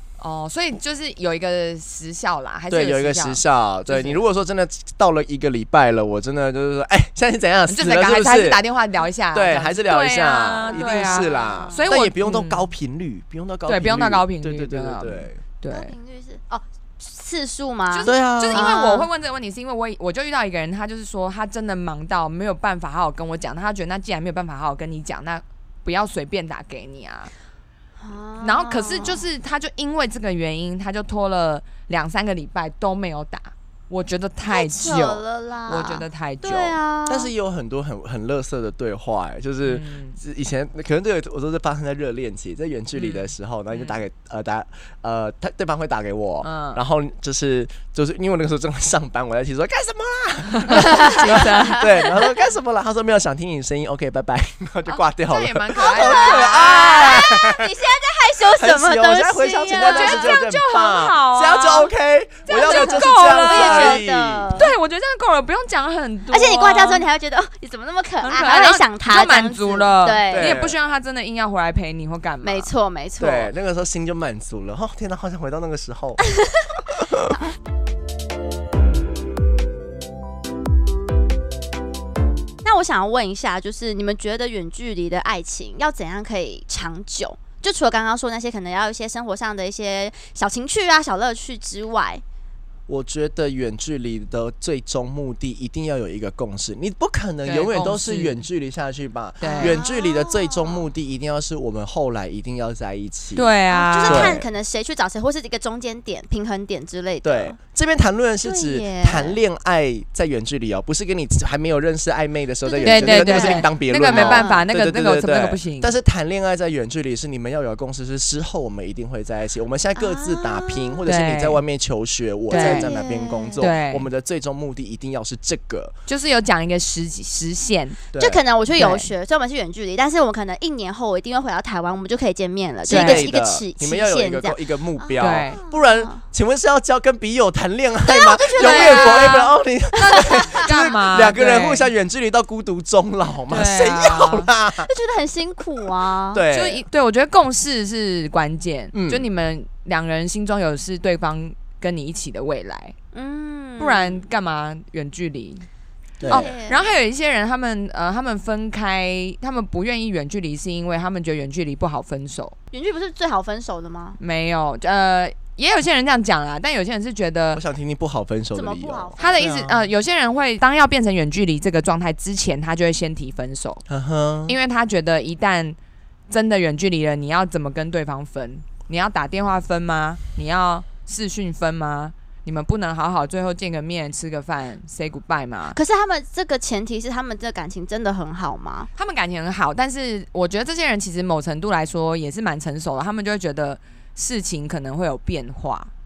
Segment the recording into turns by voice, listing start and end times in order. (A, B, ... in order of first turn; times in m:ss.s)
0:00.2-0:04.2 A
0:02.7-0:08.6 B
0:07.7-0:12.7 A
0:09.3-0:15.4 B
0:10.7-0:11.8 C
0:13.7-0:15.9 A
0:15.7-0:19.1 C
0:17.9-0:27.3 A
0:18.1-0:18.8 B
0:28.0-0:29.2 C
0:28.4-0:36.8 A
0:34.4-0:37.3 C
0:37.1-0:57.7 B
0:39.6-0:40.2 A
0:43.0-0:44.0 A
0:46.4-0:46.8 A
0:50.6-0:52.0 A
0:50.7-0:52.1 C
0:55.3-0:57.2 A
0:55.8-1:00.4 C
0:58.4-1:04.7 B
0:59.7-1:01.9 A
1:02.5-1:04.0 A
1:02.5-1:04.7 C
1:04.6-1:07.0 A
1:06.3-1:10.6 C
1:08.2-1:12.7 A
1:10.3-1:10.8 B
1:12.4-1:13.5 C
1:13.2-1:16.3 B
1:16.4-1:16.8 C
1:16.8-1:17.4 B
1:22.6-1:32.2 C
1:32.9-1:44.5 B
1:37.5-1:38.4 A
1:39.4-1:39.8 A
1:39.4-1:40.9 C
1:43.4-1:44.4 A
1:43.7-1:47.6 C
1:47.2-2:05.9 B
1:48.4-1:49.4 C
1:52.6-1:54.6 C
1:52.8-1:55.9 A
2:00.0-2:01.0 C
2:01.1-2:01.6 A
2:02.5-2:03.7 C
2:02.5-2:02.9 A
2:03.6-2:04.1 A
2:06.1-2:08.0 A
2:08.1-2:08.4 B
2:08.2-2:16.2 C
2:08.7-2:09.1 A
2:12.9-2:24.9 B
2:12.9-2:13.3 A
2:15.2-2:15.6 A
2:18.1-2:19.3 C
2:18.6-2:21.9 A
2:20.0-2:20.6 C
2:23.5-2:24.5 A
2:24.8-2:26.4 C
2:26.3-2:26.8 B
2:26.5-2:33.0 A
2:28.9-2:29.3 B
2:33.1-2:34.2 C
2:33.8-2:35.7 A
2:36.2-2:36.5 B
2:36.2-2:37.0 C
2:36.3-2:42.6 A
2:42.7-2:44.2 C
2:44.2-2:47.6 A
2:47.5-2:49.9 B
2:48.6-2:49.5 C
2:49.2-2:53.8 A
2:53.9-2:54.6 B
2:54.5-2:55.8 A
2:56.3-3:05.8 A
3:05.7-3:08.9 C
3:09.0-3:15.9 A